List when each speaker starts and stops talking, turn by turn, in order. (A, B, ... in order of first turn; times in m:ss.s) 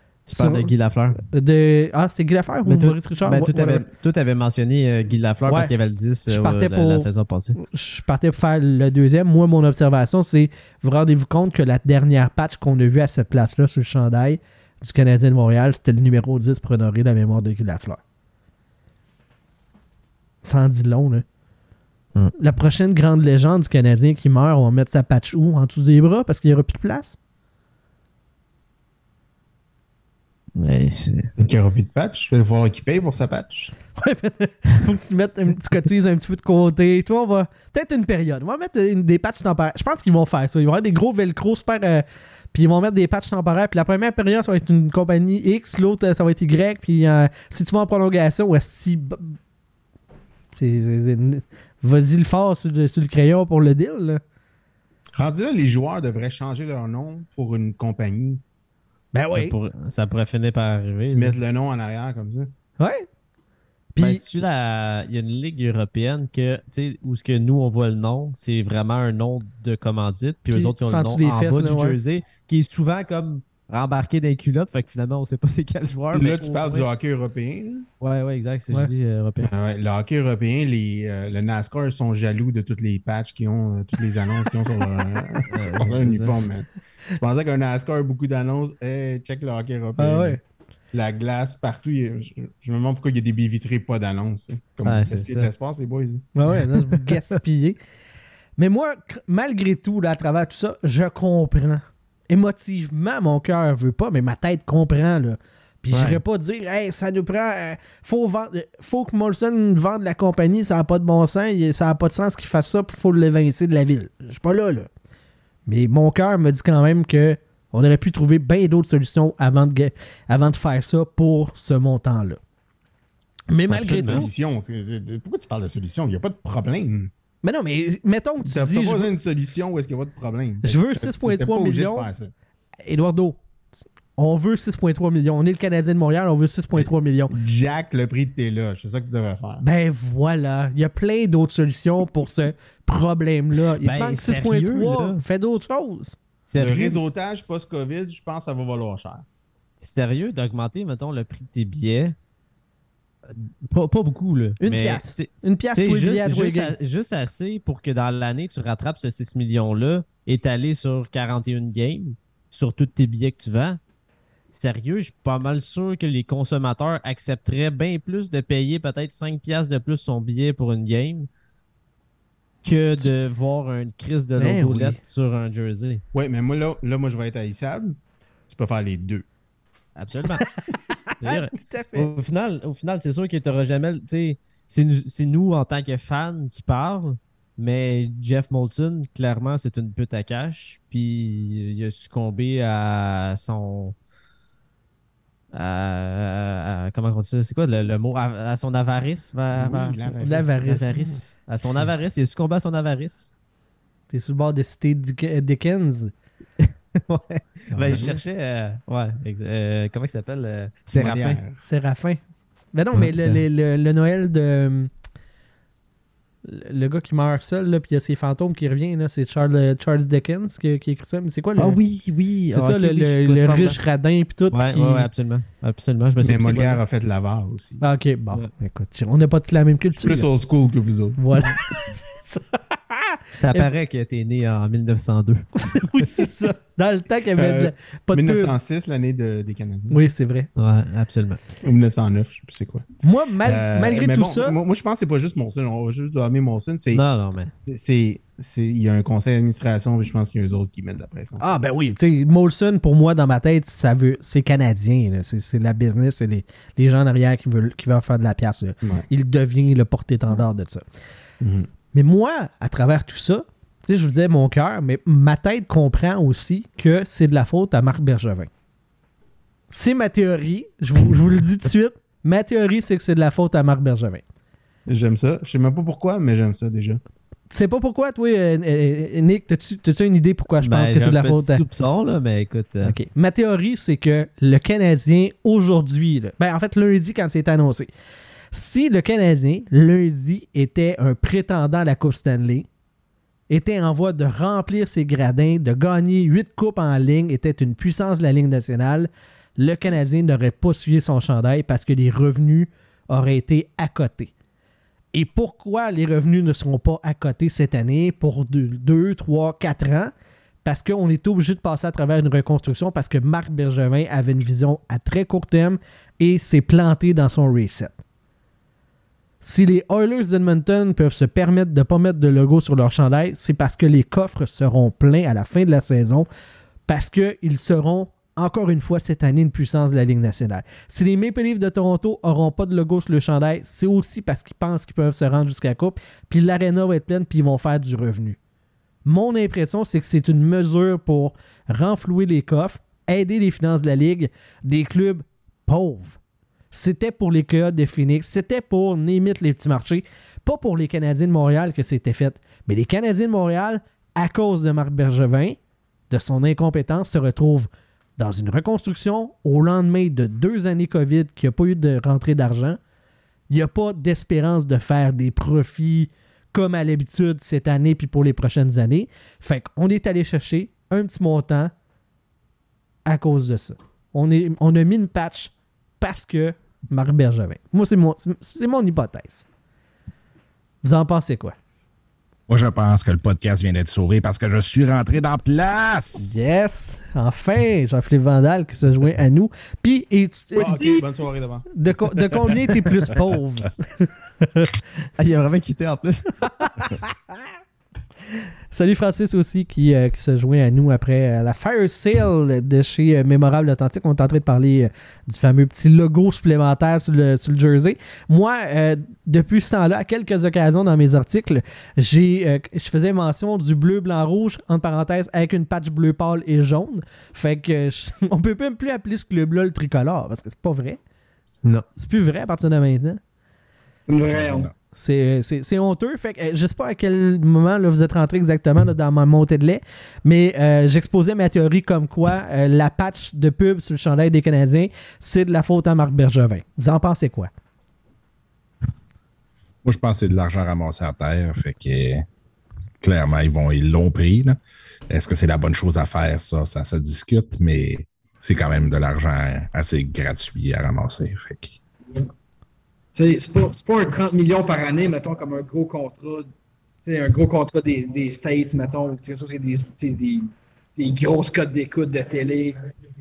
0:00.3-0:01.2 A
0:00.3-0:00.7 B
0:01.3-0:03.8 B
0:02.6-0:07.6 A
0:05.4-0:05.7 B
0:06.3-0:18.0 B
0:20.4-0:21.2 B
0:22.4-0:27.2 B
0:30.6-0:31.3 A
0:31.4-0:33.7 C
0:34.0-0:49.4 B
0:50.5-0:54.2 B
0:55.1-0:58.4 C
0:59.1-0:59.5 B
0:59.3-1:01.4 A
1:01.1-1:02.5 C
1:02.8-1:03.1 B
1:03.9-1:04.2 B
1:04.0-1:16.9 A
1:10.5-1:12.0 B
1:16.1-1:17.9 C
1:18.0-1:19.5 A
1:19.4-1:30.4 C
1:25.5-1:26.3 A
1:30.0-1:30.4 B
1:30.9-1:36.3 C
1:34.8-1:35.5 A
1:36.3-1:37.8 B
1:38.6-1:54.9 B
1:45.9-1:46.2 A
1:55.6-2:02.4 B
2:03.5-2:04.3 B
2:03.7-2:07.1 C
2:03.8-2:04.2 A
2:07.4-2:09.1 B
2:08.4-2:12.3 C
2:10.6-2:12.1 B
2:12.8-2:13.4 B
2:14.2-2:17.3 B
2:16.7-2:19.6 C
2:19.6-2:26.2 B
2:23.8-2:25.2 A
2:26.5-2:27.0 A
2:26.6-2:29.2 C
2:29.8-2:32.2 A
2:33.3-2:43.8 A
2:34.6-2:36.7 B
2:44.5-2:51.3 A
2:52.6-2:56.0 A
2:54.4-2:55.0 B
2:56.1-2:59.2 C
3:00.0-3:00.5 A
3:01.1-3:02.1 B
3:01.2-3:13.9 A
3:15.5-3:20.0 A
3:19.5-3:21.2 C
3:20.2-3:21.3 B
3:20.6-3:23.3 A
3:24.1-3:26.1 B
3:26.6-3:31.4 A
3:27.7-3:28.2 C
3:30.9-3:31.6 C
3:31.6-3:32.2 B
3:32.7-3:34.9 B
3:32.9-3:33.4 A
3:36.4-3:41.8 B
3:41.6-3:43.8 A
3:42.5-3:45.1 B
3:44.5-3:46.8 A
3:46.2-3:47.8 C
3:47.8-3:50.3 B
3:49.9-3:51.5 C
3:51.2-3:53.7 B
3:53.4-3:56.2 A
3:55.7-3:58.5 B
3:57.3-4:00.1 C
3:59.9-4:00.5 B
4:00.6-4:01.4 A
4:01.6-4:02.8 C
4:03.0-4:04.6 B
4:03.4-4:07.0 C
4:06.9-4:07.5 A
4:07.6-4:11.4 C
4:11.4-4:20.8 B
4:21.4-4:21.7 C
4:21.9-4:28.5 B
4:29.7-4:34.2 B
4:34.9-4:37.0 C
4:37.5-4:41.6 B
4:40.6-4:43.0 A
4:42.8-4:47.9 B
4:48.5-4:52.7 B
4:53.5-5:04.3 B
5:05.1-5:10.1 B
5:10.6-5:18.0 B
5:19.4-5:26.3 B
5:26.9-5:38.4 B
5:39.0-5:46.2 B
5:46.7-5:55.6 B
5:56.1-6:02.8 B
6:03.5-6:11.7 B
6:13.0-6:19.4 B
6:20.8-6:21.6 B
6:22.5-6:26.3 D
6:26.2-6:31.0 B
6:30.5-6:31.7 C
6:31.7-6:34.7 B
6:35.2-6:36.8 A
6:36.6-6:37.4 B
6:38.7-7:01.0 B
7:02.0-7:03.2 B
7:04.1-7:04.7 E
7:04.3-7:04.7 D
7:04.9-7:17.5 B
7:19.8-7:22.2 D
7:23.0-7:24.6 D
7:25.1-7:31.8 D
7:33.1-7:36.5 E
7:37.0-7:42.8 E